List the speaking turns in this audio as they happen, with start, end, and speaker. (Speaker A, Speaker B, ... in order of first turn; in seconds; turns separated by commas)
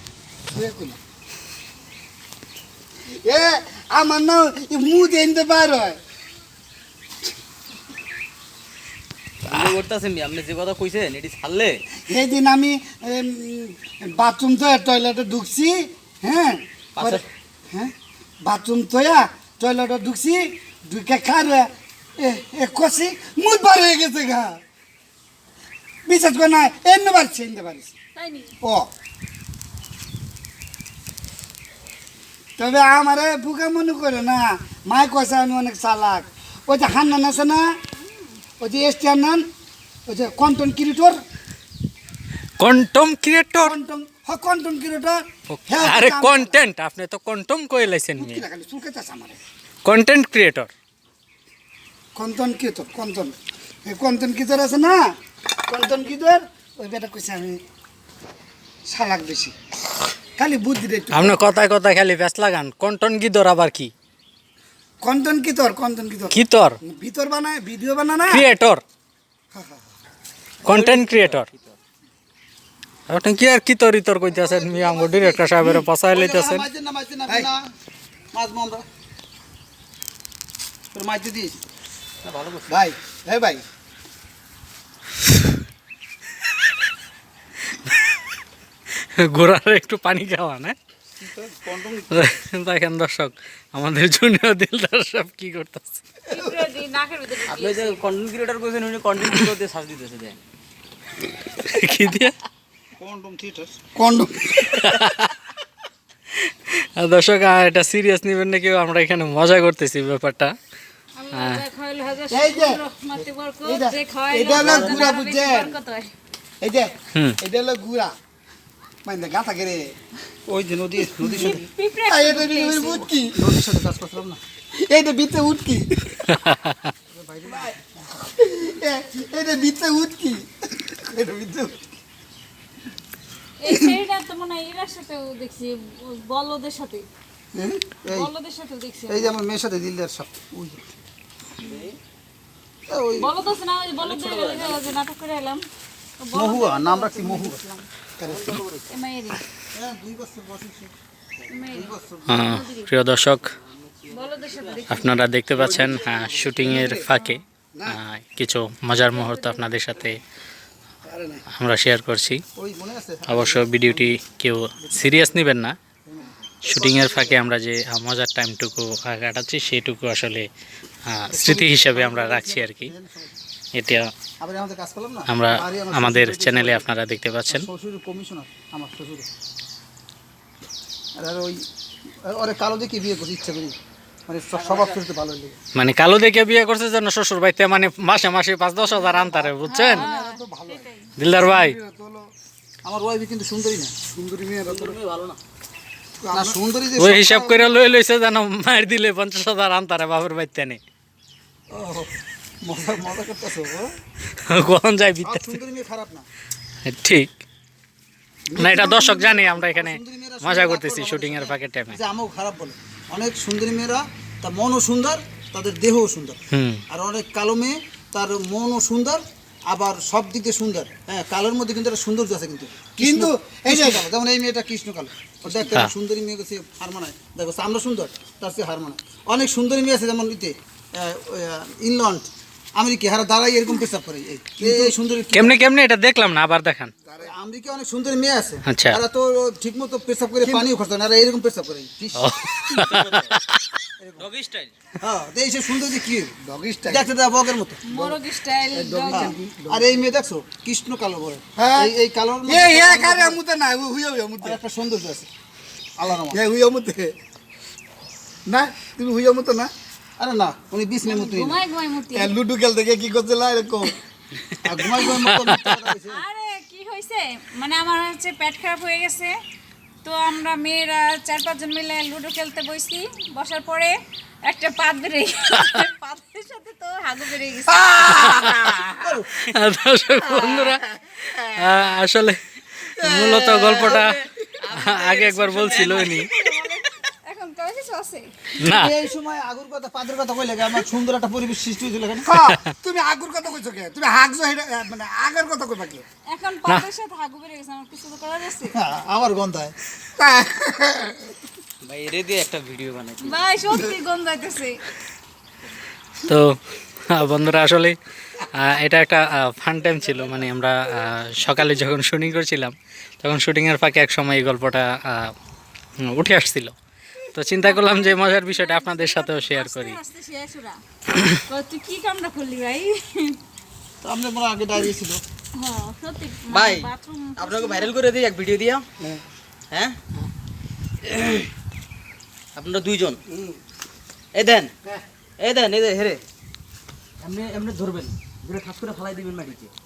Speaker A: 0.5-1.0, Speaker A: 3.2-6.0, Speaker B: 9.5-11.8, Speaker A: 12.1-24.6, Speaker A: 26.1-27.9, Speaker C: 28.2-28.6, Speaker A: 28.6-28.9, Speaker A: 32.6-37.7, Speaker C: 38.0-38.4, Speaker A: 38.6-39.5, Speaker A: 40.1-41.2, Speaker D: 42.6-43.8, Speaker A: 43.6-46.6, Speaker D: 45.5-48.5, Speaker A: 48.2-49.4, Speaker D: 49.9-50.7, Speaker A: 52.1-55.0, Speaker A: 55.7-57.6, Speaker A: 58.9-59.5, Speaker A: 60.4-61.4, Speaker D: 61.1-63.9, Speaker A: 65.0-68.5, Speaker D: 66.3-66.8, Speaker D: 68.3-68.8, Speaker D: 70.6-71.5, Speaker E: 70.7-71.2, Speaker D: 73.1-76.7, Speaker E: 74.3-77.7, Speaker E: 78.3-78.8, Speaker E: 80.9-81.6, Speaker B: 82.2-82.6, Speaker D: 82.2-82.7, Speaker E: 82.7-83.6, Speaker D: 89.2-90.8, Speaker E: 91.2-92.4, Speaker D: 92.1-96.0, Speaker C: 96.3-98.1, Speaker B: 97.6-100.4, Speaker D: 99.3-99.6, Speaker D: 101.6-102.3, Speaker E: 103.0-103.9, Speaker A: 104.0-105.3, Speaker D: 104.8-105.3, Speaker D: 106.3-110.5, Speaker C: 111.2-116.1, Speaker D: 111.3-111.6, Speaker A: 112.3-112.8, Speaker A: 113.6-115.8, Speaker E: 114.5-115.1, Speaker A: 116.6-118.2, Speaker A: 119.0-119.9, Speaker E: 120.5-121.6, Speaker A: 121.1-121.4, Speaker C: 121.2-123.1, Speaker A: 122.1-123.8, Speaker E: 123.1-124.4, Speaker A: 124.8-126.4, Speaker D: 126.5-126.8, Speaker E: 127.1-127.8, Speaker A: 127.4-131.8, Speaker C: 133.6-137.1, Speaker E: 137.5-138.3, Speaker C: 138.1-139.3, Speaker E: 139.1-140.8, Speaker E: 142.9-143.3, Speaker C: 143.2-145.7, Speaker B: 144.0-144.8, Speaker C: 146.2-147.6, Speaker E: 146.3-148.6, Speaker A: 148.2-148.5, Speaker B: 148.3-148.9, Speaker C: 148.9-149.4, Speaker E: 149.7-150.9, Speaker C: 151.5-152.9, Speaker E: 151.7-152.6, Speaker D: 152.3-153.6, Speaker B: 153.7-154.8, Speaker C: 154.1-155.2, Speaker D: 154.9-160.2, Speaker A: 155.5-157.1, Speaker E: 155.6-156.7, Speaker C: 156.9-157.4, Speaker A: 157.8-158.0, Speaker C: 159.1-159.6, Speaker A: 161.1-161.4, Speaker D: 161.5-162.4, Speaker E: 162.6-164.2, Speaker D: 163.3-165.8, Speaker E: 164.8-165.5, Speaker E: 166.1-167.4, Speaker D: 166.6-170.5, Speaker D: 171.1-172.9, Speaker E: 171.3-173.4, Speaker D: 173.7-174.1, Speaker E: 174.4-176.9, Speaker D: 175.3-177.7, Speaker E: 177.5-179.3, Speaker E: 181.2-181.6, Speaker E: 182.2-185.6, Speaker D: 185.7-190.1, Speaker E: 189.2-190.0, Speaker A: 189.3-192.2, Speaker C: 189.7-191.1, Speaker D: 191.2-191.8, Speaker E: 192.8-194.1, Speaker A: 194.1-195.0, Speaker B: 194.7-195.4, Speaker A: 196.2-196.6, Speaker E: 196.3-197.9, Speaker D: 197.0-200.8, Speaker E: 201.7-202.1, Speaker E: 202.6-203.9, Speaker D: 204.5-205.5, Speaker E: 205.2-206.3, Speaker D: 206.9-207.3, Speaker E: 208.6-235.6, Speaker D: 208.6-212.0, Speaker D: 216.5-216.8, Speaker A: 223.0-224.1, Speaker A: 234.6-234.9, Speaker D: 235.3-236.9, Speaker A: 237.1-237.3, Speaker E: 237.2-243.2, Speaker D: 238.7-239.0, Speaker D: 242.2-243.2, Speaker A: 242.8-243.3, Speaker E: 244.0-244.3, Speaker B: 244.2-244.7, Speaker D: 244.3-244.7, Speaker E: 245.0-246.3, Speaker A: 246.4-247.1, Speaker E: 246.9-247.8, Speaker C: 247.8-249.3, Speaker A: 247.9-248.2, Speaker A: 248.7-250.0, Speaker E: 249.1-253.4, Speaker A: 251.6-251.9, Speaker A: 252.5-254.6, Speaker E: 254.4-255.3, Speaker E: 256.0-256.4, Speaker A: 256.3-257.1, Speaker A: 258.5-259.7, Speaker E: 260.2-261.6, Speaker C: 261.1-262.3, Speaker A: 262.1-263.9, Speaker E: 264.6-266.2, Speaker D: 265.0-265.6, Speaker C: 266.0-269.4, Speaker C: 270.0-278.4, Speaker A: 277.9-279.1, Speaker D: 278.1-278.8, Speaker E: 278.9-279.3, Speaker D: 279.4-286.3, Speaker A: 280.3-281.1, Speaker E: 283.2-286.3, Speaker C: 285.5-288.8, Speaker D: 288.6-288.9, Speaker E: 288.7-292.3, Speaker A: 292.2-296.0, Speaker C: 296.3-298.8, Speaker E: 298.7-299.8, Speaker A: 300.2-301.3, Speaker B: 301.8-303.4, Speaker C: 303.2-304.8, Speaker D: 306.3-306.6, Speaker D: 307.1-315.3, Speaker D: 316.0-316.8, Speaker D: 317.3-320.0, Speaker C: 317.5-323.4, Speaker E: 324.0-325.2, Speaker C: 325.5-327.9, Speaker B: 327.9-328.9, Speaker B: 332.6-333.1, Speaker A: 333.3-333.6, Speaker B: 334.4-334.7, Speaker B: 335.4-336.2, Speaker E: 337.2-338.3, Speaker B: 337.3-339.7, Speaker E: 338.9-339.7